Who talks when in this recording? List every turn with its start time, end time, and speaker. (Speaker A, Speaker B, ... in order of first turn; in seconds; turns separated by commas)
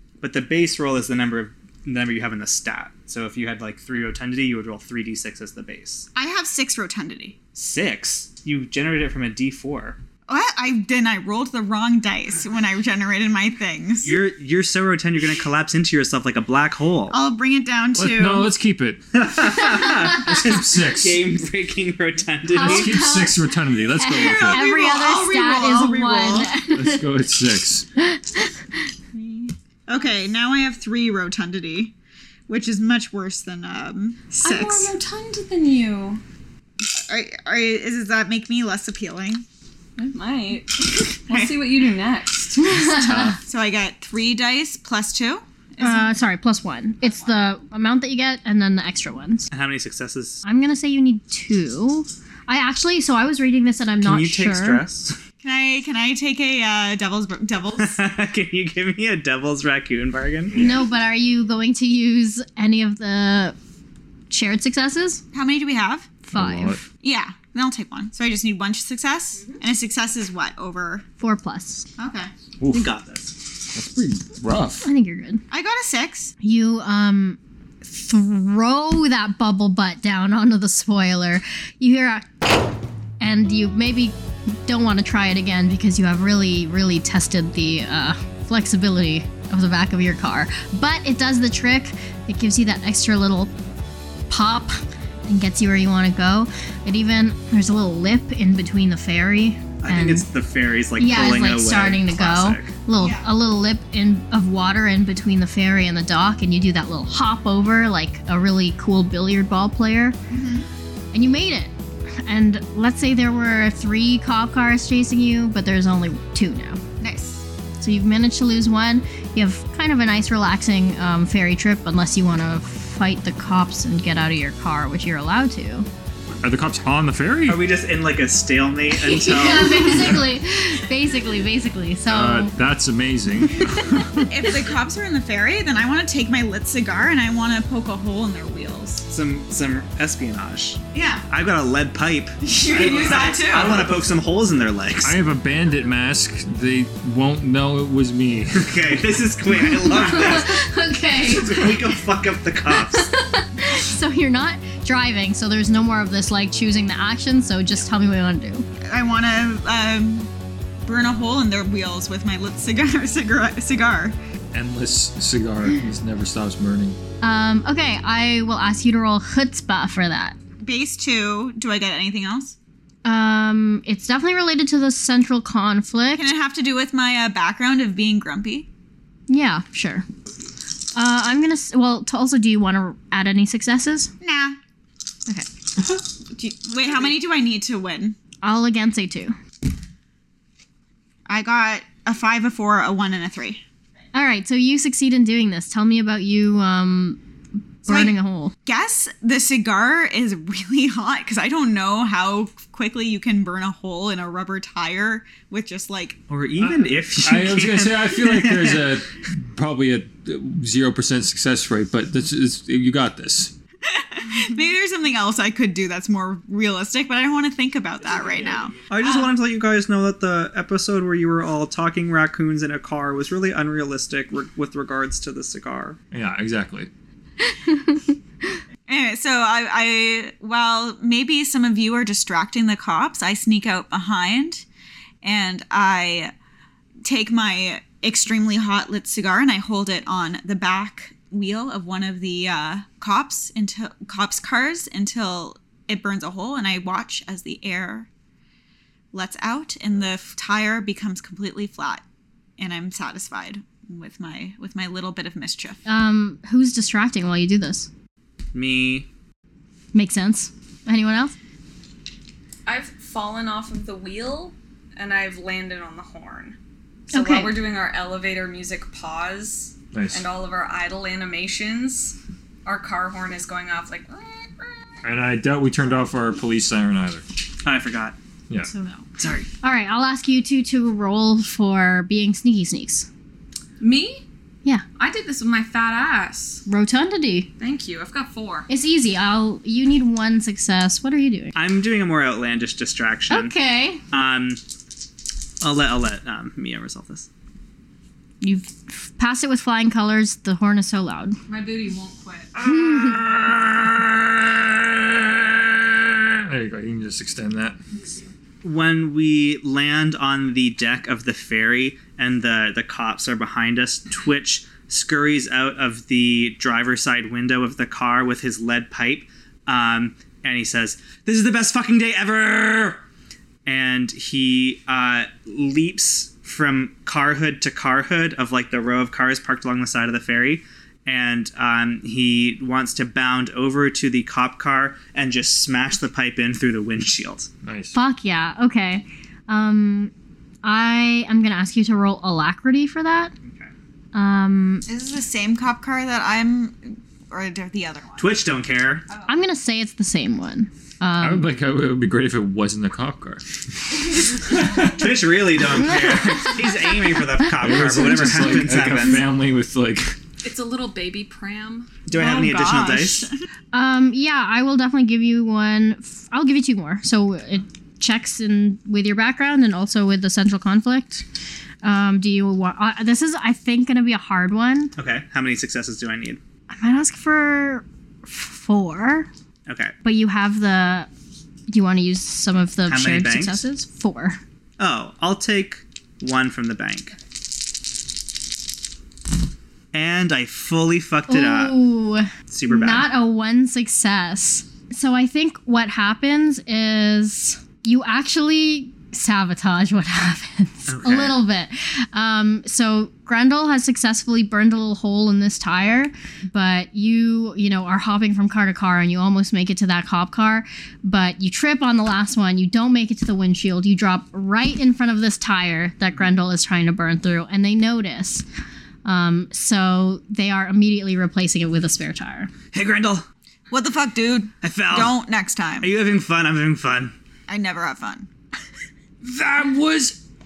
Speaker A: 0.2-6.1, Speaker B: 6.2-7.4, Speaker A: 7.5-10.0, Speaker B: 10.3-14.2, Speaker A: 14.0-17.2, Speaker B: 17.1-18.5, Speaker C: 18.0-19.0, Speaker A: 19.1-22.9, Speaker C: 20.0-21.2, Speaker D: 22.5-27.1, Speaker C: 22.6-24.6, Speaker B: 24.1-26.5, Speaker C: 26.7-27.9, Speaker D: 28.0-28.5, Speaker B: 29.1-31.9, Speaker B: 32.5-34.9, Speaker E: 34.4-36.2, Speaker B: 36.8-39.5, Speaker E: 40.0-42.8, Speaker B: 41.3-41.6, Speaker D: 42.6-43.4, Speaker A: 42.9-43.3, Speaker B: 43.5-46.1, Speaker D: 45.8-49.5, Speaker A: 49.5-50.4, Speaker D: 50.4-54.8, Speaker A: 54.0-55.2, Speaker B: 55.4-58.0, Speaker A: 57.8-60.6, Speaker C: 60.5-60.8, Speaker D: 60.5-63.6, Speaker D: 64.3-65.2, Speaker B: 65.3-66.1, Speaker D: 66.3-66.8, Speaker C: 66.3-66.8, Speaker B: 67.0-71.0, Speaker D: 71.2-71.9, Speaker B: 72.0-72.3, Speaker C: 72.6-72.9, Speaker A: 72.7-73.4, Speaker C: 73.7-74.9, Speaker D: 74.8-75.4, Speaker B: 75.5-76.3, Speaker D: 76.4-82.5, Speaker D: 83.2-93.5, Speaker D: 94.3-100.3, Speaker A: 99.8-102.7, Speaker D: 101.0-110.2, Speaker B: 103.0-103.3, Speaker B: 110.3-110.7, Speaker D: 111.1-111.7, Speaker D: 112.2-116.8, Speaker B: 117.0-117.5, Speaker D: 117.8-125.9, Speaker C: 126.4-127.6, Speaker A: 127.5-130.2, Speaker D: 128.9-132.6, Speaker C: 132.1-134.3, Speaker D: 133.5-134.1, Speaker B: 134.2-139.1, Speaker A: 139.1-145.2, Speaker B: 140.9-141.3, Speaker B: 142.4-144.0, Speaker C: 145.0-148.9, Speaker A: 148.5-150.6, Speaker D: 149.5-152.0, Speaker A: 151.2-153.1, Speaker D: 152.7-158.7, Speaker B: 158.8-160.3, Speaker B: 160.8-164.2, Speaker C: 164.5-167.0, Speaker D: 167.2-170.4, Speaker B: 170.6-172.6, Speaker D: 173.1-176.3, Speaker B: 176.2-178.7, Speaker D: 179.3-180.1, Speaker D: 180.9-184.1, Speaker B: 184.2-184.6, Speaker B: 186.3-188.2, Speaker D: 188.4-189.3, Speaker B: 191.3-193.6, Speaker D: 194.1-197.2, Speaker D: 197.8-198.5, Speaker B: 197.9-198.1, Speaker B: 198.7-206.2, Speaker A: 206.3-208.9, Speaker C: 206.6-213.5, Speaker B: 213.9-218.8, Speaker A: 218.9-226.0, Speaker C: 226.1-226.9, Speaker D: 227.7-227.9, Speaker B: 228.9-234.6, Speaker B: 235.2-236.3, Speaker B: 237.0-248.1, Speaker B: 249.1-252.0, Speaker B: 252.6-255.8, Speaker D: 255.9-257.9, Speaker A: 258.5-259.1, Speaker D: 259.9-261.3, Speaker E: 262.7-266.6, Speaker E: 267.1-274.9, Speaker D: 267.1-267.6, Speaker C: 269.9-270.2, Speaker C: 275.0-277.2, Speaker A: 277.6-278.2, Speaker D: 278.7-279.0, Speaker A: 279.2-279.5, Speaker D: 279.6-283.1, Speaker E: 283.8-284.2, Speaker E: 285.0-286.6, Speaker D: 286.7-287.5, Speaker E: 287.6-288.7, Speaker D: 288.7-291.6, Speaker A: 291.6-293.5, Speaker D: 293.3-294.0, Speaker A: 294.1-294.6, Speaker A: 295.6-297.3, Speaker D: 298.4-301.4, Speaker E: 301.5-302.5, Speaker C: 302.5-307.8, Speaker D: 302.6-303.2, Speaker E: 308.0-308.2, Speaker A: 308.6-323.0, Speaker A: 323.7-337.5, Speaker C: 337.6-338.0, Speaker D: 337.9-340.1, Speaker D: 340.6-343.3, Speaker D: 344.1-344.9, Speaker B: 344.9-348.4, Speaker A: 348.2-349.1, Speaker D: 349.3-351.5, Speaker C: 351.2-356.5, Speaker A: 354.9-359.3, Speaker D: 355.8-357.0, Speaker C: 357.6-360.2, Speaker E: 360.4-362.0, Speaker A: 362.1-363.3, Speaker B: 362.1-363.3, Speaker D: 363.7-371.2, Speaker D: 371.8-374.9, Speaker A: 375.0-376.4, Speaker D: 376.7-379.3, Speaker A: 379.7-379.9, Speaker D: 380.0-381.1, Speaker D: 381.7-384.4, Speaker A: 382.9-383.6, Speaker A: 384.8-387.2, Speaker A: 389.9-391.8, Speaker D: 391.3-418.4, Speaker A: 392.5-393.1, Speaker A: 400.9-401.4, Speaker D: 419.1-422.5, Speaker A: 422.7-423.2, Speaker B: 423.7-425.9, Speaker A: 424.6-425.2, Speaker A: 425.8-427.1, Speaker B: 427.5-428.3, Speaker C: 429.2-430.2